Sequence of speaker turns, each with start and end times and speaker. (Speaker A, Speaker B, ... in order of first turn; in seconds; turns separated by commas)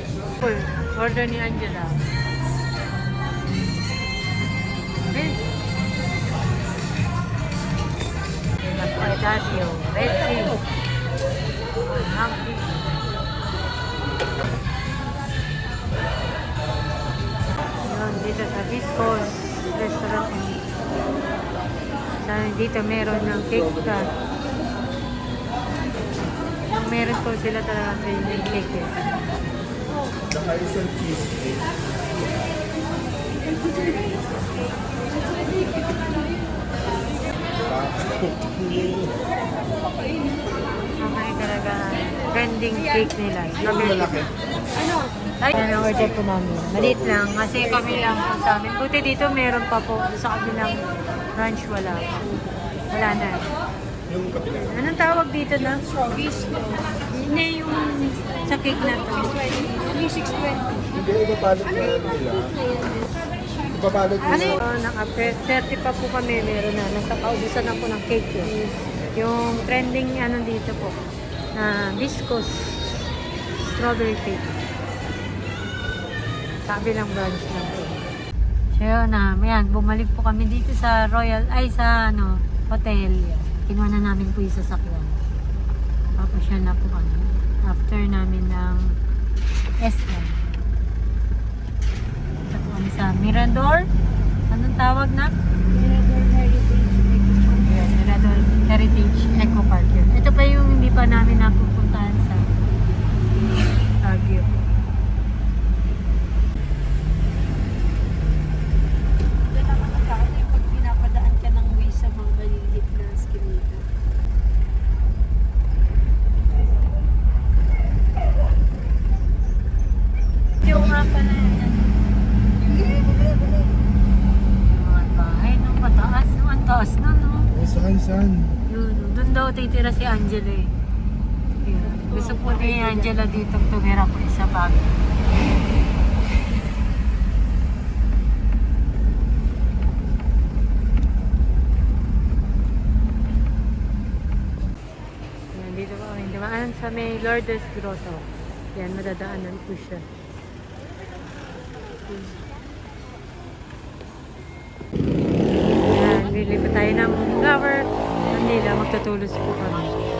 Speaker A: 0.4-2.0, Speaker A: 5.1-5.4, Speaker A: 8.6-10.6, Speaker A: 11.9-13.1, Speaker A: 17.8-20.6, Speaker A: 22.2-24.1, Speaker A: 26.7-28.9, Speaker B: 30.4-31.4, Speaker B: 37.7-38.9, Speaker A: 41.0-44.3, Speaker A: 45.4-50.8, Speaker A: 51.4-52.1, Speaker A: 52.9-53.5, Speaker A: 54.5-55.8, Speaker C: 56.1-56.9, Speaker A: 57.1-59.4, Speaker C: 59.2-60.9, Speaker B: 60.9-62.3, Speaker C: 61.7-63.1, Speaker B: 63.7-64.6, Speaker C: 64.2-64.6, Speaker A: 64.2-68.5, Speaker A: 69.1-71.0, Speaker A: 71.5-72.8, Speaker A: 73.5-74.6, Speaker A: 76.7-78.0, Speaker A: 78.7-85.2, Speaker A: 86.2-89.0, Speaker A: 89.8-90.6, Speaker A: 92.5-93.9, Speaker A: 94.5-95.3, Speaker C: 95.7-97.9, Speaker A: 97.7-102.5, Speaker A: 104.0-104.6, Speaker C: 109.5-113.8, Speaker A: 120.6-121.9, Speaker C: 122.6-123.7, Speaker A: 124.6-127.5, Speaker A: 128.7-130.7, Speaker A: 131.7-135.1, Speaker C: 131.7-133.2, Speaker A: 145.5-150.1, Speaker C: 152.0-152.3, Speaker A: 155.8-159.9